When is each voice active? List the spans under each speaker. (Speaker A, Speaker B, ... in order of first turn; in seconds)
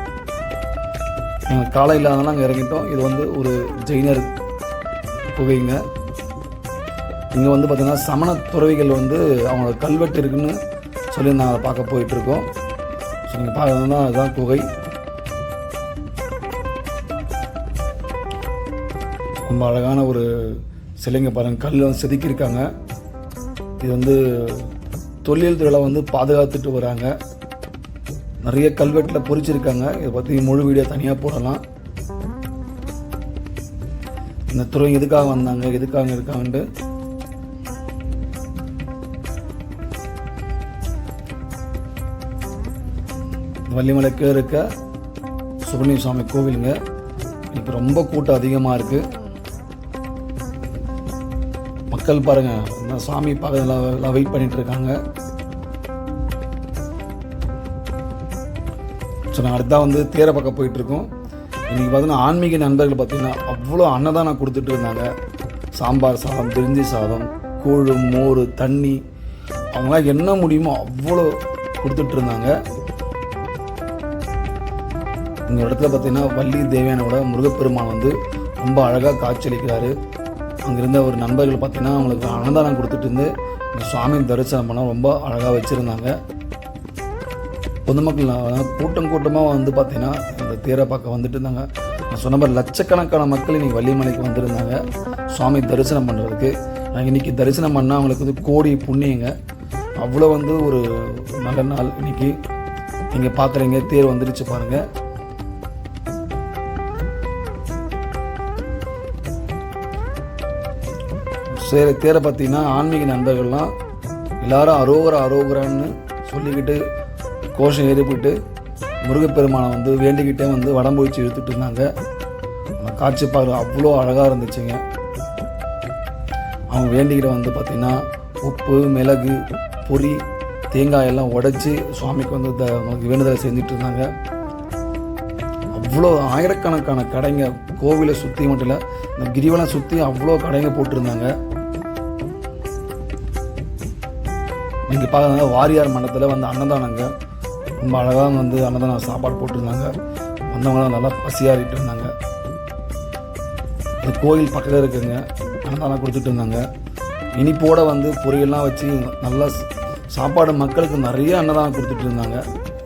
Speaker A: 1.5-4.3, 5.3-5.8, 7.3-10.6, 11.1-12.5, 13.3-14.7, 19.5-22.6, 23.8-24.7, 25.2-27.1, 28.4-31.6, 34.5-36.6, 43.7-44.6, 45.7-46.8, 47.5-49.0, 51.9-55.0, 59.3-61.1, 61.7-65.1, 65.7-69.0, 69.7-72.5, 75.5-79.9, 80.6-86.2, 87.8-99.3, 100.0-102.3, 103.1-104.8, 111.5-113.7, 114.4-116.8, 117.5-118.3, 119.0-121.9, 122.8-124.8, 126.7-134.1, 135.7-141.3, 144.9-147.1, 147.8-149.9, 150.5-152.1, 154.0-156.6, 157.4-162.4